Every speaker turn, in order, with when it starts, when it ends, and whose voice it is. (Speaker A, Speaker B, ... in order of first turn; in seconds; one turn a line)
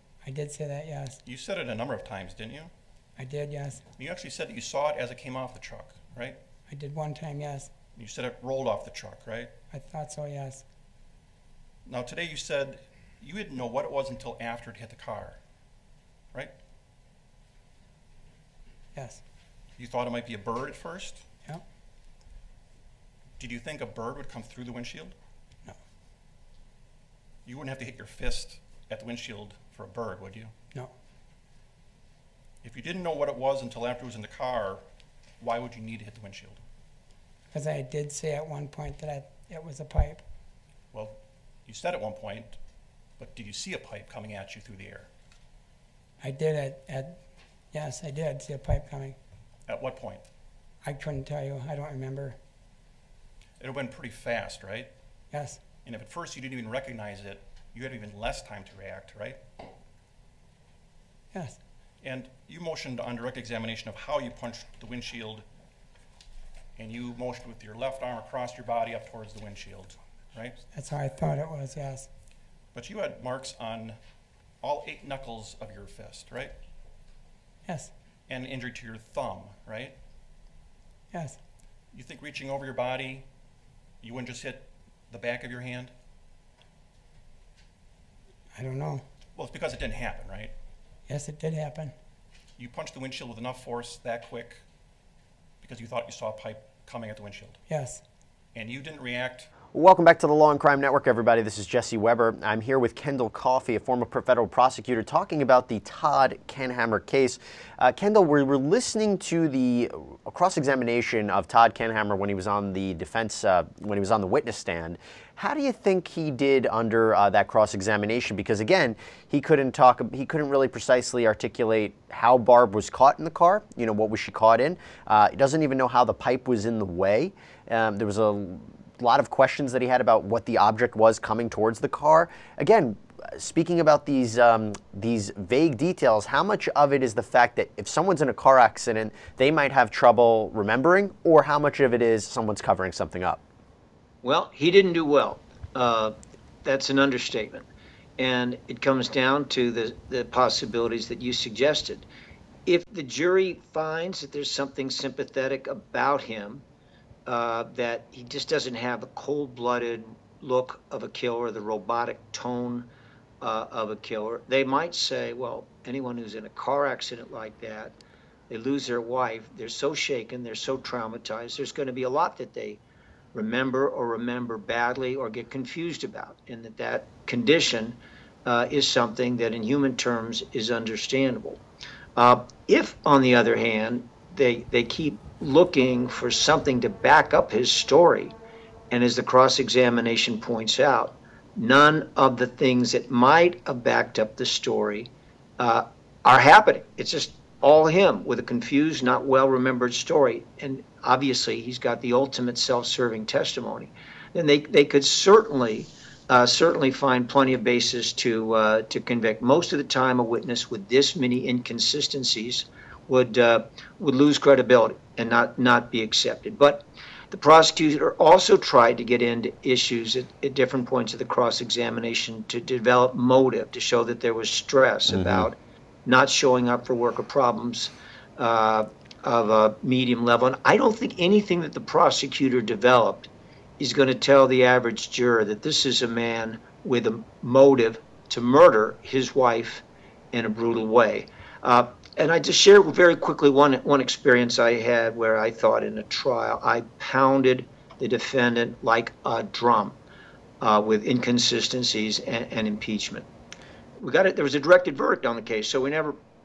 Speaker A: 0.2-1.2
Speaker B: 1.2-2.7
Speaker A: 3.2-3.8
Speaker B: 4.0-6.4
Speaker A: 6.7-7.7
Speaker B: 8.0-9.5
Speaker A: 9.7-10.6
Speaker B: 11.8-15.4
Speaker A: 18.9-19.2
Speaker B: 19.8-21.2
Speaker B: 23.4-25.1
Speaker B: 27.4-30.5
Speaker B: 32.6-34.8
Speaker B: 35.4-36.6
Speaker A: 37.5-40.2
Speaker B: 40.9-42.6
Speaker B: 43.2-45.1
Speaker A: 46.2-49.2
Speaker B: 49.7-50.2
Speaker A: 50.8-52.4
Speaker B: 53.6-54.9
Speaker A: 55.3-55.6
Speaker B: 55.8-59.4
Speaker A: 61.3-61.6
Speaker B: 62.0-65.4
Speaker B: 66.8-70.6
Speaker A: 70.7-72.1
Speaker B: 72.7-74.0
Speaker B: 74.6-76.5
Speaker A: 77.7-77.9
Speaker B: 78.3-80.0
Speaker A: 81.1-81.4
Speaker B: 81.9-83.2
Speaker B: 84.0-85.9
Speaker A: 88.5-89.0
Speaker B: 89.3-90.5
Speaker A: 91.1-91.9
Speaker B: 92.6-94.6
Speaker B: 95.6-97.6
Speaker A: 97.7-98.0
Speaker B: 98.5-99.5
Speaker C: 99.7-143.4
Speaker D: 144.2-152.1
Speaker D: 152.7-156.6
Speaker D: 157.2-162.9
Speaker D: 163.4-168.0
Speaker D: 168.5-172.8
Speaker D: 173.3-181.6
Speaker D: 182.2-188.3
Speaker D: 188.9-250.0
Speaker C: 225.1-225.5
Speaker D: 250.6-253.3
Speaker D: 254.0-256.2